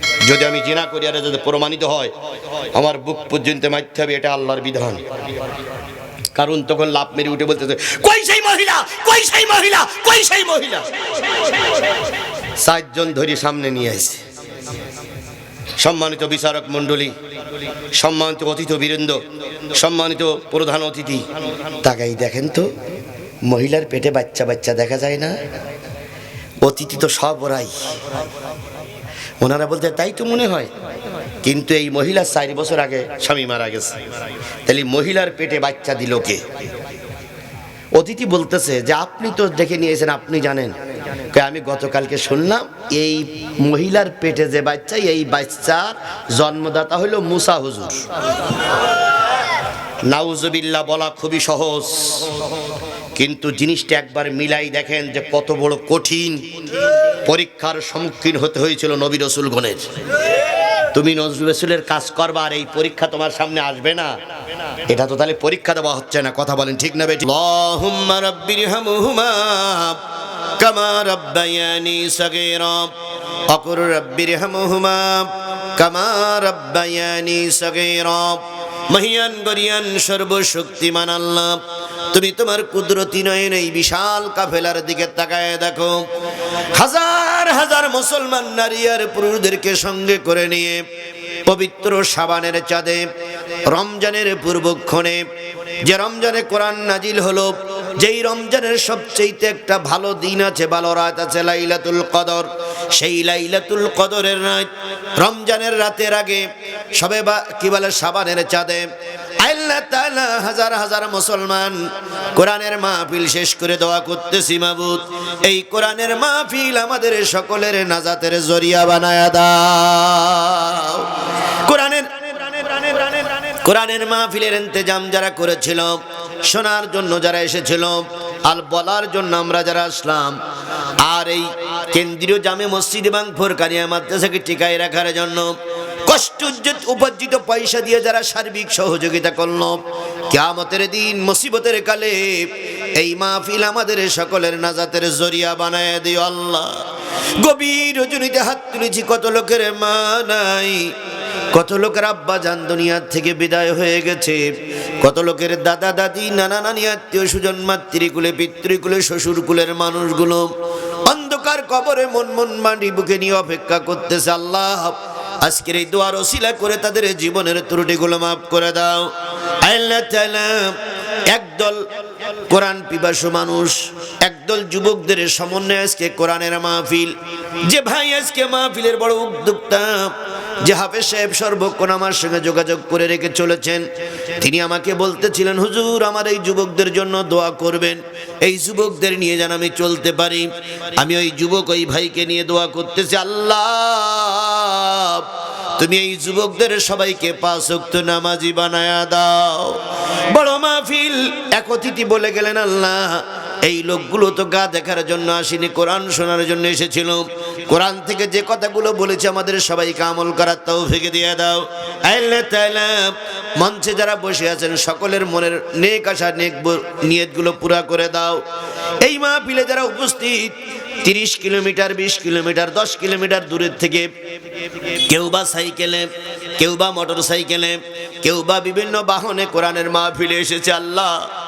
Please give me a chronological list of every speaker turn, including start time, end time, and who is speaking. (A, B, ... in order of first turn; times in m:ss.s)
0:00.2-0:02.1 A
0:02.7-0:05.0 A
0:06.3-0:10.8 A
0:12.6-0:14.2 A
0:15.8-0:17.1 A
0:18.0-0:19.2 A
0:19.8-0:21.2 A
0:21.8-0:22.7 A
0:23.4-0:25.4 A
0:26.6-0:27.7 A
0:29.4-0:30.7 A
0:31.4-0:34.0 A
0:34.6-0:36.4 A
0:38.0-0:40.7 A
0:41.3-0:48.0 A
0:50.1-0:52.3 A
0:53.2-0:56.4 A
0:57.2-0:59.8 A
1:00.9-1:04.1 A
1:04.9-1:10.0 A
1:10.6-1:12.9 A
1:13.5-1:21.6 A
1:22.1-1:26.0 A
1:26.8-1:30.8 A
1:31.5-1:33.0 A
1:33.7-1:35.2 A
1:35.8-1:44.7 A
1:45.2-1:46.4 A
1:47.0-1:48.8 A
1:49.4-1:51.8 A
1:52.4-2:01.1 A
2:01.6-2:10.4 A
2:11.0-2:15.5 A
2:16.0-2:19.8 A
2:20.3-2:26.8 A
2:27.4-2:30.9 A
2:31.5-2:34.4 A
2:35.0-2:40.5 A
2:41.1-2:49.1 A
2:49.6-2:50.8 A
2:51.3-2:51.8 A
2:52.5-2:57.1 A
2:57.6-3:00.1 A
3:00.6-3:03.8 A
3:04.4-3:15.2 A
3:15.8-3:19.8 A
3:20.3-3:38.4 A
3:39.0-3:44.1 A
3:44.9-3:51.1 A